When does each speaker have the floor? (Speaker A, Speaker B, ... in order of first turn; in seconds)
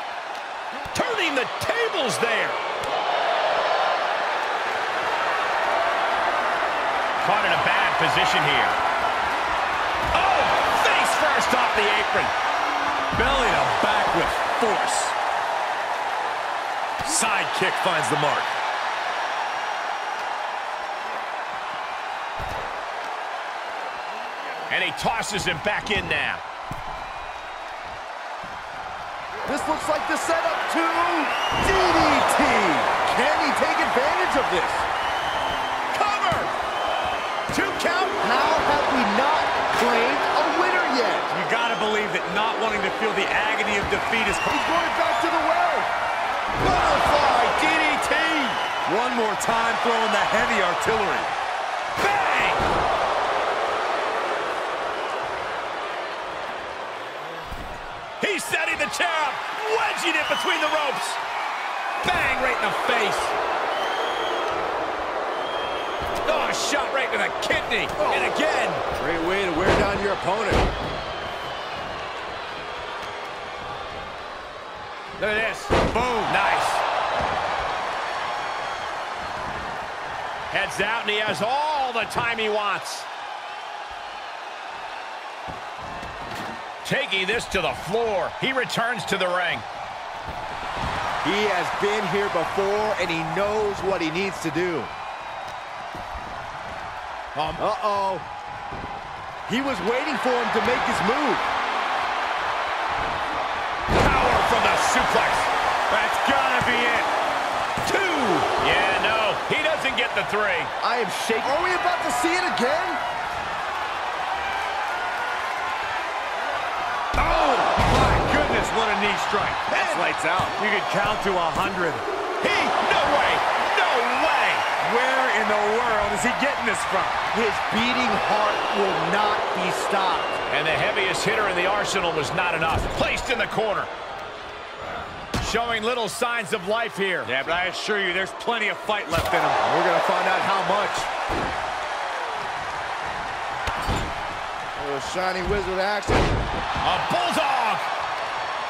Speaker A: 0.9-2.6, 7.2-8.8, 10.1-12.3, 24.7-26.4, 37.5-38.1, 46.6-48.6, 52.0-52.7, 58.2-61.2, 62.0-63.3, 66.2-68.8, 75.2-76.8, 80.5-83.1, 86.8-89.7, 97.3-97.6, 103.9-105.5, 107.8-110.7, 119.8-120.0, 122.4-124.7, 130.5-133.9, 135.4-137.3, 146.8-147.9
Speaker B: 13.1-15.2, 17.0-18.6, 41.3-44.5, 48.9-51.3, 75.8-76.3, 105.9-107.1, 117.2-122.1, 124.8-127.2, 137.2-139.6
Speaker C: 29.5-34.9, 36.0-36.5, 38.1-41.3, 44.5-45.9, 68.8-70.6, 91.2-94.9, 97.6-98.3, 99.5-101.5, 110.8-113.0, 119.8-120.5, 127.3-130.4, 139.6-141.1, 144.8-146.3